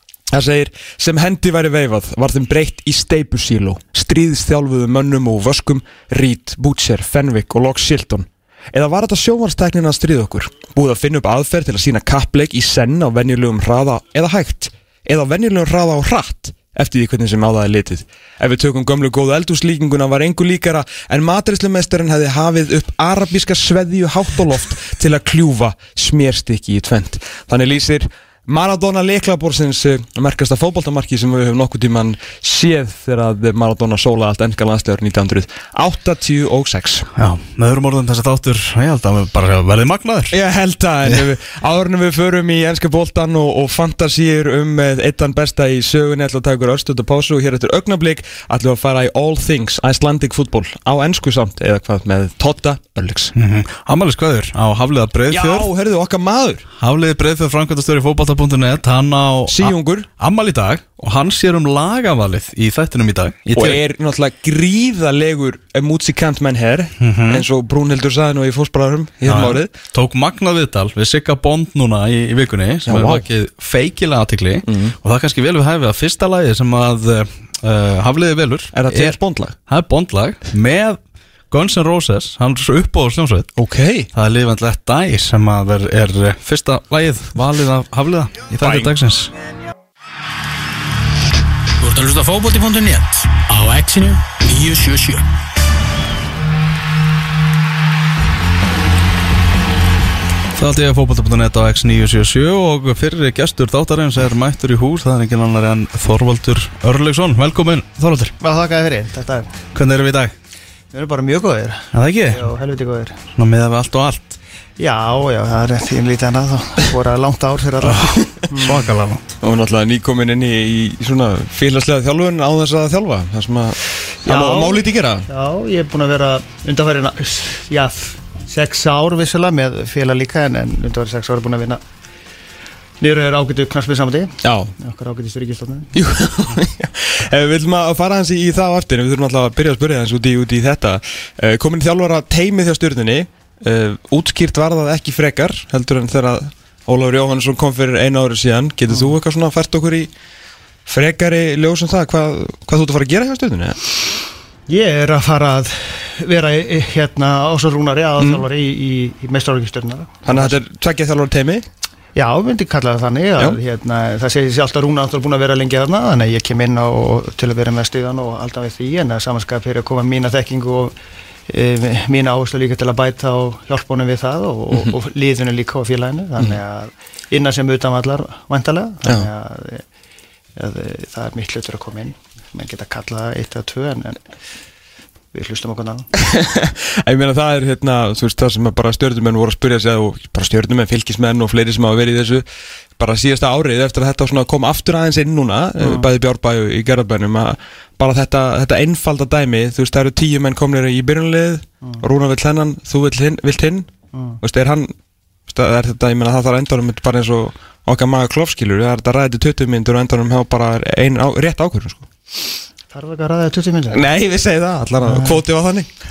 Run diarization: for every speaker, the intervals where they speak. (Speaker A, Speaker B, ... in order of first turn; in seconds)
Speaker A: 0.3-37.1, 40.3-53.3, 55.3-56.7, 59.5-60.1, 63.5-69.7, 72.9-73.2, 74.7-74.9, 78.7-79.5, 83.6-84.1, 88.6-88.9, 119.4-125.3, 134.4-134.8, 135.9-150.1, 150.9-153.8, 158.2-158.4, 160.3-161.7, 186.2-192.4, 193.0-203.9, 204.4-204.9, 205.5-212.1, 213.9-215.9
Speaker B: 37.2-40.4, 53.4-55.7, 56.8-63.8, 67.0-67.5, 69.3-79.2, 79.7-81.0, 81.5-83.5, 84.1-89.3, 100.5-108.3, 109.7-110.3, 111.9-112.5, 113.3-114.4, 117.8-119.2
Speaker C: 91.8-95.2
Speaker D: 108.4-109.6, 110.9-113.2, 114.8-118.9, 124.2-131.8, 133.0-135.9, 154.7-160.6, 162.2-170.9, 171.5-179.8, 180.6-184.2, 185.3-186.1, 195.8-196.1, 204.1-204.4, 212.9-214.0, 215.0-215.4